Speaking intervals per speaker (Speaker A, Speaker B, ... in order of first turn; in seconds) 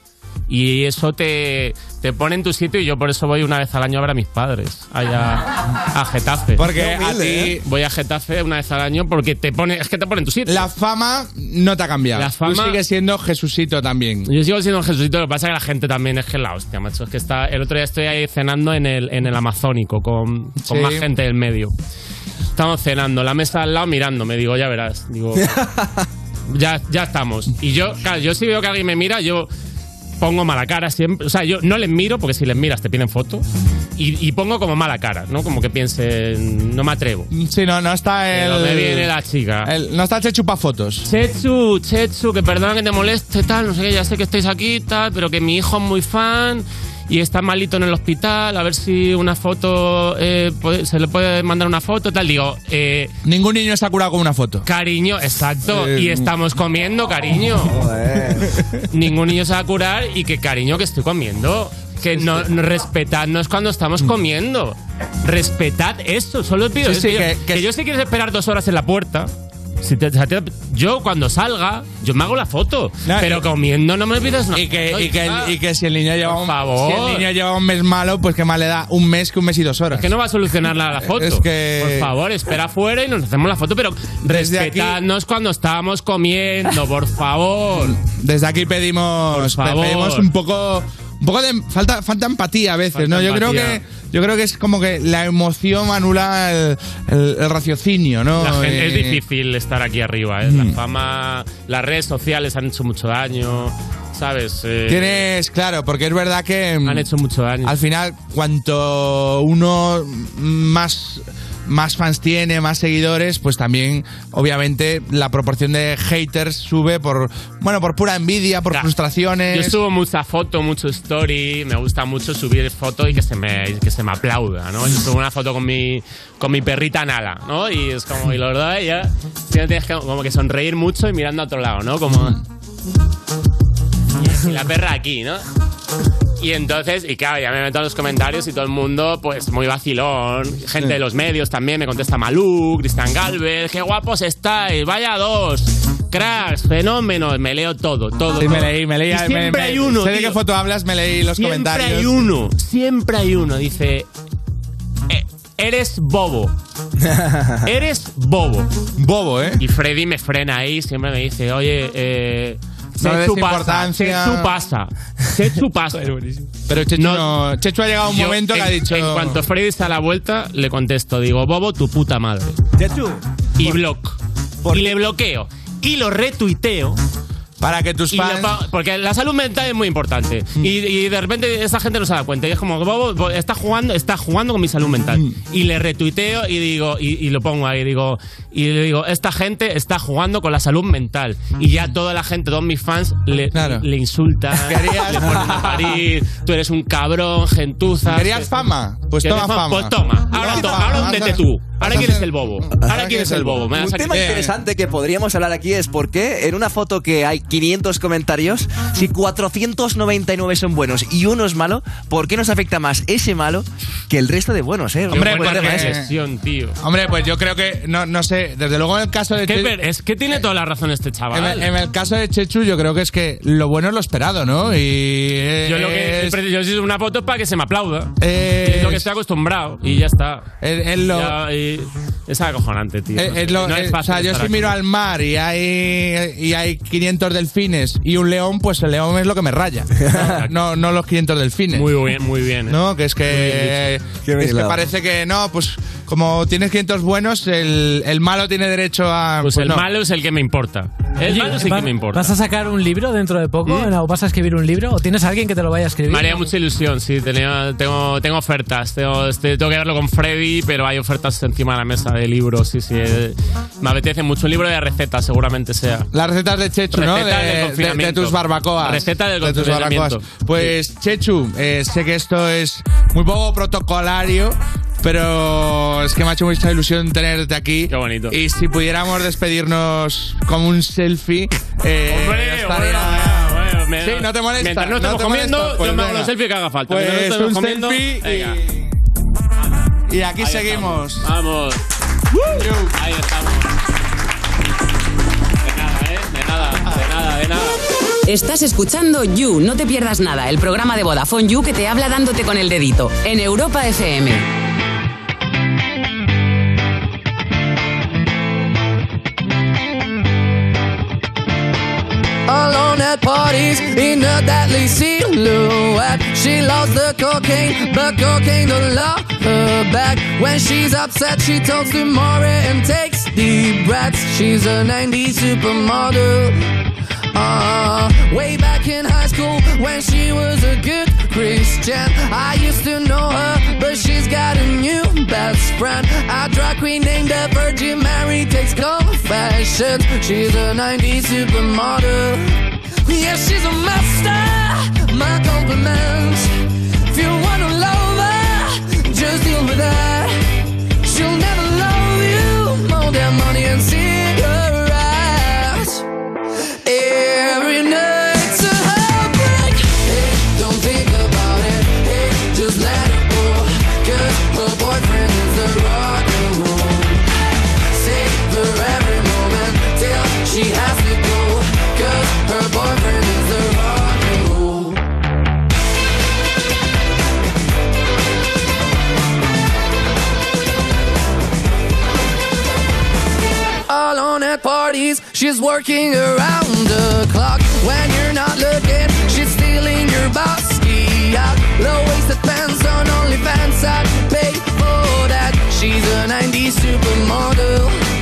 Speaker A: 0.5-10.7, 12.1-12.8, 14.3-21.7, 22.6-25.6, 26.5-29.5, 30.2-33.4, 34.0-37.3, 38.3-39.7, 41.0-53.1, 54.6-57.8, 58.9-69.3, 69.8-75.6, 76.2-77.3, 79.9-88.0, 89.3-90.3, 92.9-93.8, 98.4-105.3, 106.8-107.8, 119.5-132.4, 134.2-135.4, 136.4-150.4, 151.3-154.1, 155.1-156.6, 157.6-158.7, 159.6-166.2, 167.0-167.3, 168.1-172.6, 173.6-174.2, 174.7-177.0, 178.1-198.5, 199.2-204.5, 215.1-216.8, 219.4-221.7, 225.6-230.5, 231.1-234.8, 240.1-240.5, 241.7-243.8, 249.4-252.4, 253.6-253.9, 256.1-266.1, 266.9-270.7, 277.9-278.4, 282.1-288.6, 289.6-291.8, 292.4-293.7, 295.6-297.8
Speaker B: 6.6-7.6, 10.4-14.3, 20.6-21.1, 37.3-39.1, 39.6-41.1, 53.2-54.6, 55.6-56.3, 62.1-62.5, 66.8-67.7, 73.0-73.5, 74.5-80.1, 81.0-82.1, 84.3-85.0, 87.8-99.2, 100.4-100.8, 104.9-107.1, 107.6-119.8, 148.4-152.2, 158.9-159.6, 163.0-164.5, 166.7-169.4, 177.6-178.6, 193.5-193.8, 194.5-195.9, 198.1-203.6, 204.1-204.5, 215.1-216.1, 216.8-219.7, 221.3-226.4, 228.2-229.1, 230.6-231.4, 233.2-241.9, 242.7-249.9, 266.1-286.3, 286.9-288.9, 290.1-291.3, 292.5-292.9
Speaker C: 7.0-7.2, 203.7-215.9, 244.3-244.8
Speaker D: 251.2-256.5
Speaker E: 298.3-304.4
Speaker F: 312.5-326.6, 327.3-346.5, 347.1-350.4, 351.0-356.0, 356.9-367.3, 367.9-375.0, 383.9-398.0